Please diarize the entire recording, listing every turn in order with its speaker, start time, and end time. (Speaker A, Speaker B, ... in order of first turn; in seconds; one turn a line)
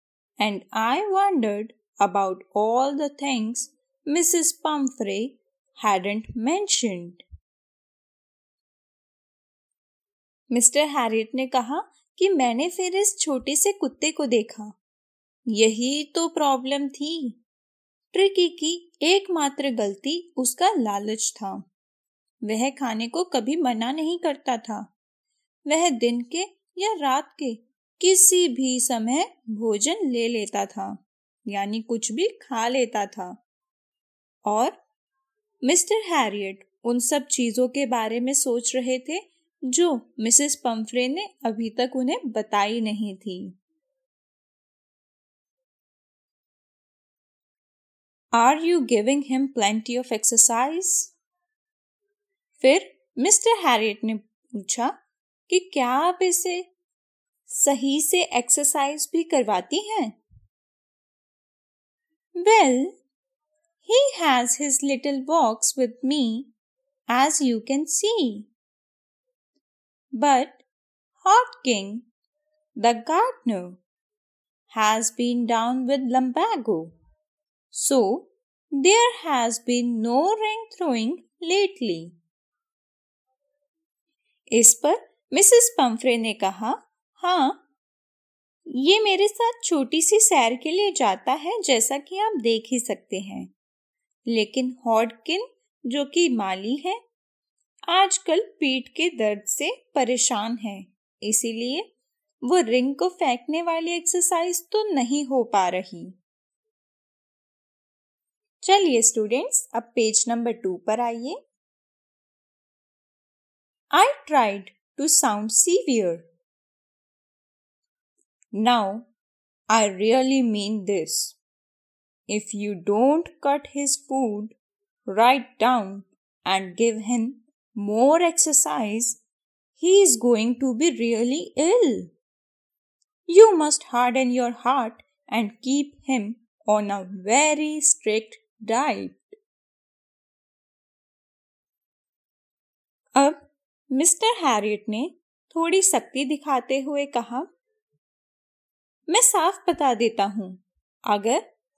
Speaker A: 0.4-7.2
Speaker A: 10.5-14.8
Speaker A: 15.5-17.4
Speaker A: 18.1-21.7
Speaker A: 22.4-24.9
Speaker A: 25.7-33.4
Speaker A: 34.5-34.8
Speaker A: 35.6-43.5
Speaker A: 48.3-51.1
Speaker A: 52.6-55.0
Speaker A: 55.5-56.7
Speaker A: 57.5-60.2
Speaker A: 62.4-62.9
Speaker A: 63.9-66.5
Speaker A: 67.1-68.5
Speaker A: 70.2-70.6
Speaker A: 71.2-72.1
Speaker A: 72.8-73.8
Speaker A: 74.7-77.0
Speaker A: 77.7-82.2
Speaker A: 84.5-87.6
Speaker A: 88.7-93.5
Speaker A: 94.3-97.0
Speaker A: 97.9-101.9
Speaker A: 102.4-106.2
Speaker A: 108.6-111.4
Speaker A: 113.9-116.2
Speaker A: 118.5-119.1
Speaker A: 119.7-121.4
Speaker A: 122.3-124.5
Speaker A: 125.1-129.2
Speaker A: 129.8-132.1
Speaker A: 133.3-139.4
Speaker A: 143.2-147.5
Speaker A: 149.1-151.4